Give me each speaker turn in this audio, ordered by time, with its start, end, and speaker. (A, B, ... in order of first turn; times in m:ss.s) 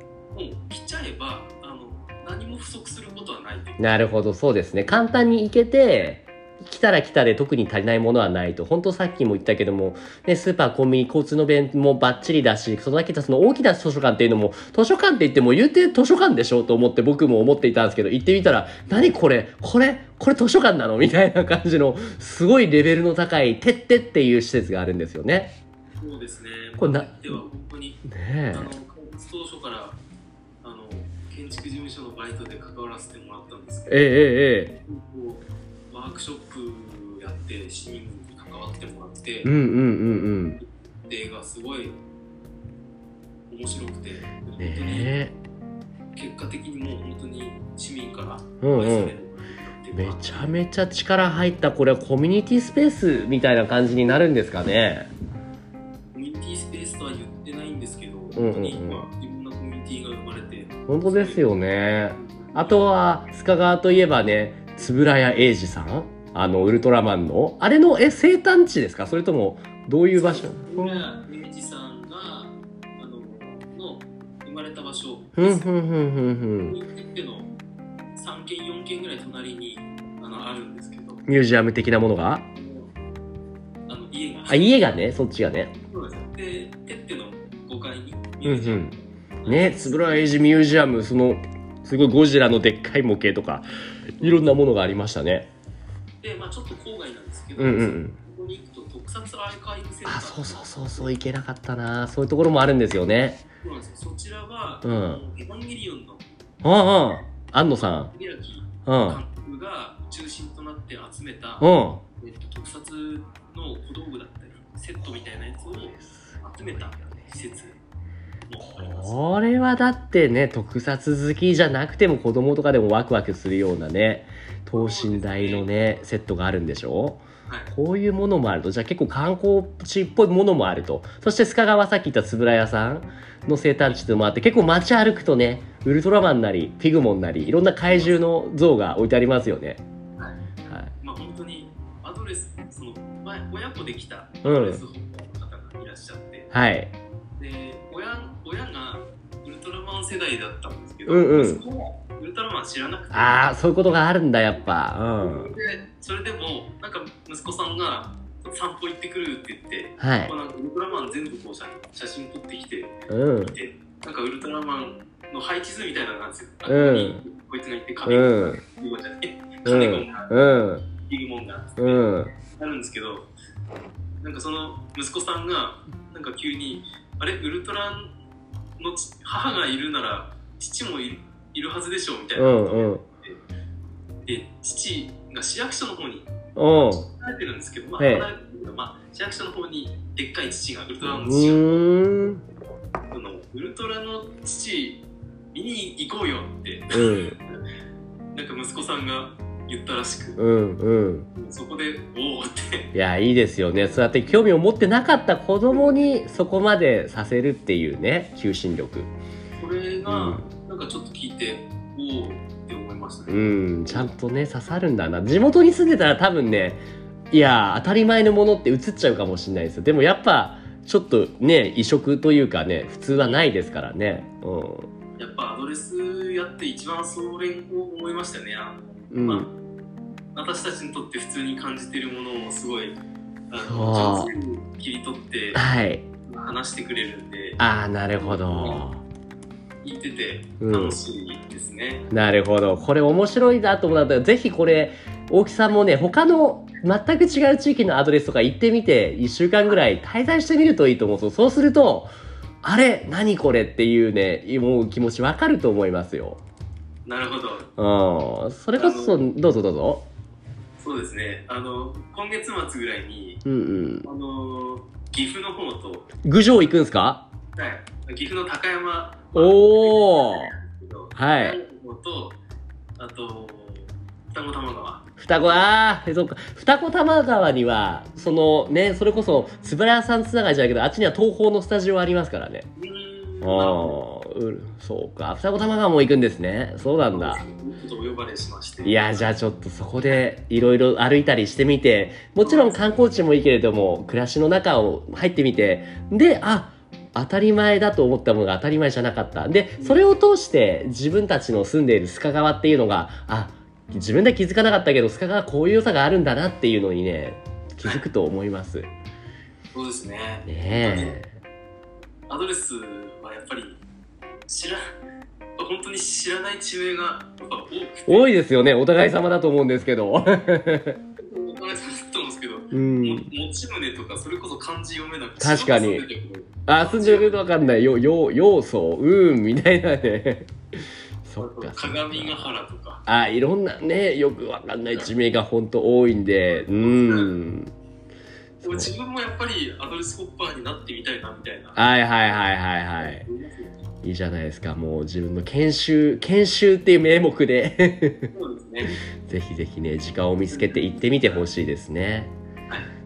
0:00.3-0:03.8 A
0:03.8-0:25.5 B
0:26.0-0:30.0 A
0:26.8-0:27.2 B
0:28.0-0:28.7 B
0:30.6-0:34.1 A
0:33.9-0:34.7 B
0:34.8-0:39.5 A
0:39.4-0:40.6 B
0:40.6-0:42.0 A
0:43.5-0:45.2 A
0:44.6-0:45.3 B
0:46.1-0:50.5 A
0:48.6-0:49.2 B
0:49.9-0:55.1 B
0:56.1-1:01.6 A
0:58.3-0:59.1 B
1:00.9-1:11.0 B
1:02.1-1:02.9 A
1:10.1-1:15.7 A
1:15.4-1:16.8 B
1:16.6-1:17.5 A
1:18.1-1:21.2 A
1:21.3-1:22.4 B
1:22.5-1:22.9 A
1:23.9-1:24.8 A
1:24.5-1:25.7 B
1:25.9-1:30.3 A
1:28.4-1:28.9 B
1:29.4-1:35.5 B
1:36.2-1:41.1 A
1:37.6-1:38.2 B
1:40.0-1:43.4 B
1:43.6-1:46.3 A
1:44.8-1:45.2 B
1:46.6-1:48.1 B
1:47.7-1:57.8 A
1:48.8-1:49.2 B
1:51.6-1:52.0 B
1:55.0-1:57.3 B
1:58.5-1:59.2 A
1:58.6-2:19.8 B
2:04.7-2:05.7 A
2:17.9-2:18.2 A
2:20.7-2:20.9 B
2:21.0-2:26.5 A
2:24.4-2:24.8 B
2:26.5-2:26.9 B
2:27.4-2:33.6 A
2:31.1-2:31.6 B
2:33.1-2:35.5 B
2:35.2-2:53.3 A
2:40.0-2:40.3 B
2:43.1-2:43.6 B
2:46.7-2:47.2 B
2:48.0-2:48.6 B
2:49.6-2:50.8 B
2:51.8-2:52.3 B
2:54.2-2:58.1 A
2:58.8-3:03.4 A
3:02.4-3:03.0 B
3:04.2-3:06.3 A
3:06.6-3:07.1 B
3:06.8-3:11.8 A
3:08.0-3:08.3 B
3:11.0-3:12.4 B
3:13.1-3:17.4 A
3:16.9-3:17.4 B
3:18.3-3:20.4 A
3:20.4-3:21.3 B
3:21.3-3:22.9 A
3:22.9-3:29.1 B
3:25.7-3:26.2 A
3:29.6-3:34.1 A
3:30.1-3:30.4 B
3:33.3-3:44.9 B
3:43.2-3:43.5 A
3:45.2-3:49.5 A
3:49.1-3:49.5 B
3:50.3-3:53.0 A
3:53.5-3:55.6 A
3:53.6-3:54.3 B
3:55.5-3:56.0 B
3:56.2-3:57.6 A
3:57.6-3:59.0 B
3:58.1-3:58.8 A
3:59.8-4:02.1 A
4:00.6-4:01.0 B
4:02.1-4:12.1 B
4:12.6-4:16.4 B
4:17.0-4:17.7 A
4:17.8-4:20.0 B
4:18.8-4:19.2 A
4:20.8-4:23.4 A
4:23.4-4:24.0 B
4:24.0-4:26.1 A
4:26.2-4:27.2 B
4:27.6-4:32.4 A
4:29.3-4:30.5 B
4:31.1-4:31.6 B
4:33.0-4:35.6 A
4:35.2-4:42.7 B
4:42.8-4:44.0 A
4:43.4-4:47.4 B
4:47.1-4:49.3 A
4:48.8-5:08.9 B
4:52.4-4:53.0 A
4:59.8-5:00.0 A
5:09.7-5:11.2 A
5:10.4-5:11.3 B
5:12.3-5:13.8 A
5:14.5-5:14.9 A
5:15.6-5:18.3 A
5:18.1-5:21.0 B
5:21.2-5:27.5 A
5:22.7-5:23.3 B
5:25.4-5:26.0 B
5:26.7-5:32.5 B
5:31.4-5:33.0 A
5:33.0-5:37.7 B
5:36.5-5:37.4 A
5:38.6-5:38.9 B
5:38.6-5:41.8 A
5:41.8-5:43.2 B
5:43.0-5:43.8 A
5:44.0-5:48.3 B
5:48.3-5:49.0 A
5:48.9-5:52.3 B
5:50.5-5:51.4 A